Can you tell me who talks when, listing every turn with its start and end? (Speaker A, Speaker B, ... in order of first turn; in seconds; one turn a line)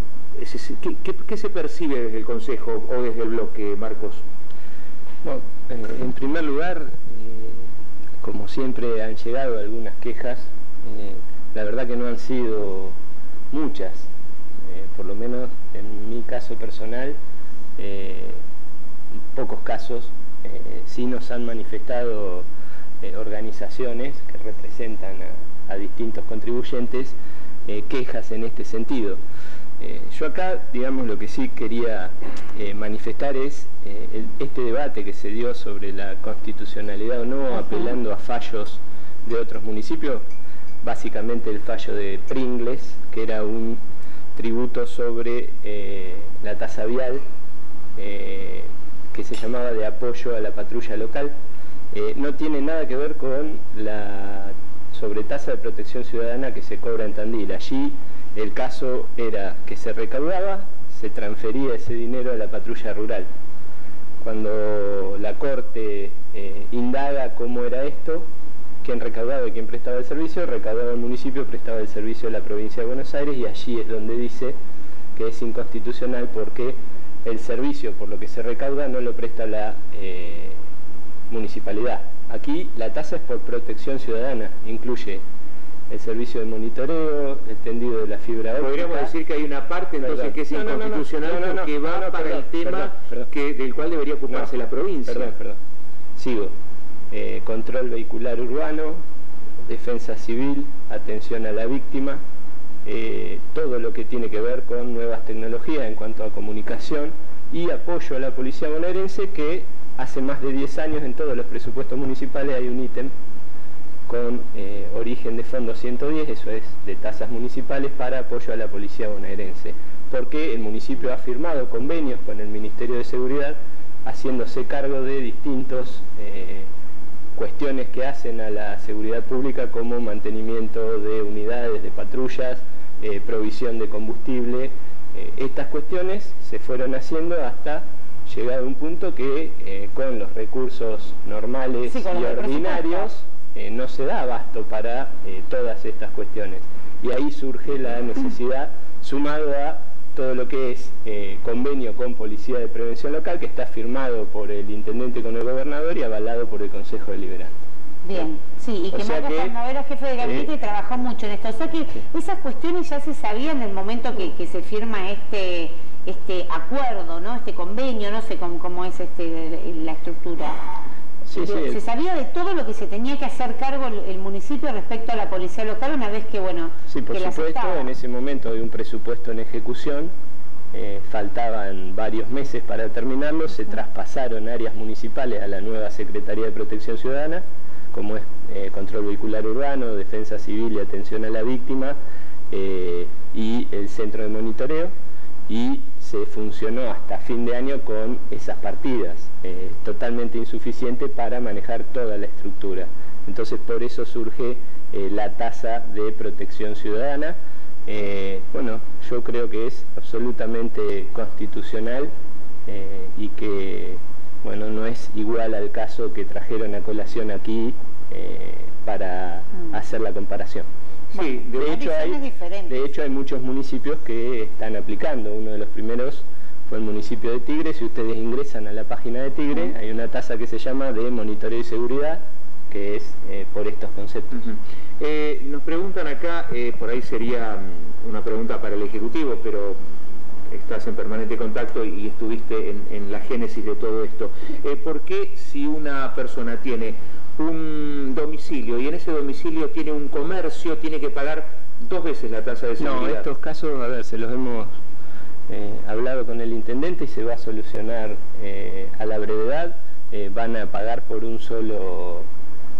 Speaker A: 0.3-4.2
Speaker B: 5.2-12.9
Speaker B: 13.5-14.1
Speaker B: 14.6-17.2
Speaker B: 17.8-18.4
Speaker B: 19.3-22.5
Speaker B: 23.0-29.2
Speaker B: 29.8-40.2
Speaker B: 40.8-43.8
Speaker B: 44.3-47.2
Speaker B: 48.0-51.3
Speaker B: 51.9-63.3
Speaker B: 64.2-68.3
Speaker B: 68.8-74.6
Speaker B: 75.1-80.6
Speaker B: 81.3-85.2
Speaker B: 85.9-89.1
Speaker A: 88.6-95.3
Speaker B: 90.0-93.3
Speaker B: 95.0-95.6
Speaker B: 96.2-96.5
Speaker B: 97.1-99.0
Speaker B: 99.6-102.2
Speaker B: 102.8-113.1
Speaker B: 114.1-126.7
Speaker B: 127.3-157.6
Speaker C: 141.8-143.1
Speaker C: 158.0-170.6
Speaker B: 158.9-159.5
Speaker B: 160.2-160.5
Speaker B: 171.2-171.8
Speaker C: 171.3-177.9
Speaker B: 176.9-180.1
Speaker B: 180.7-191.9
Speaker B: 192.5-194.9
Speaker B: 195.5-212.1
Speaker B: 212.7-220.7
Speaker A: 221.1-221.8
Speaker C: 221.1-222.8
Speaker B: 221.6-234.5
Speaker A: 234.3-239.8
Speaker A: 240.5-253.2
Speaker B: 252.8-254.8
Speaker B: 255.5-262.3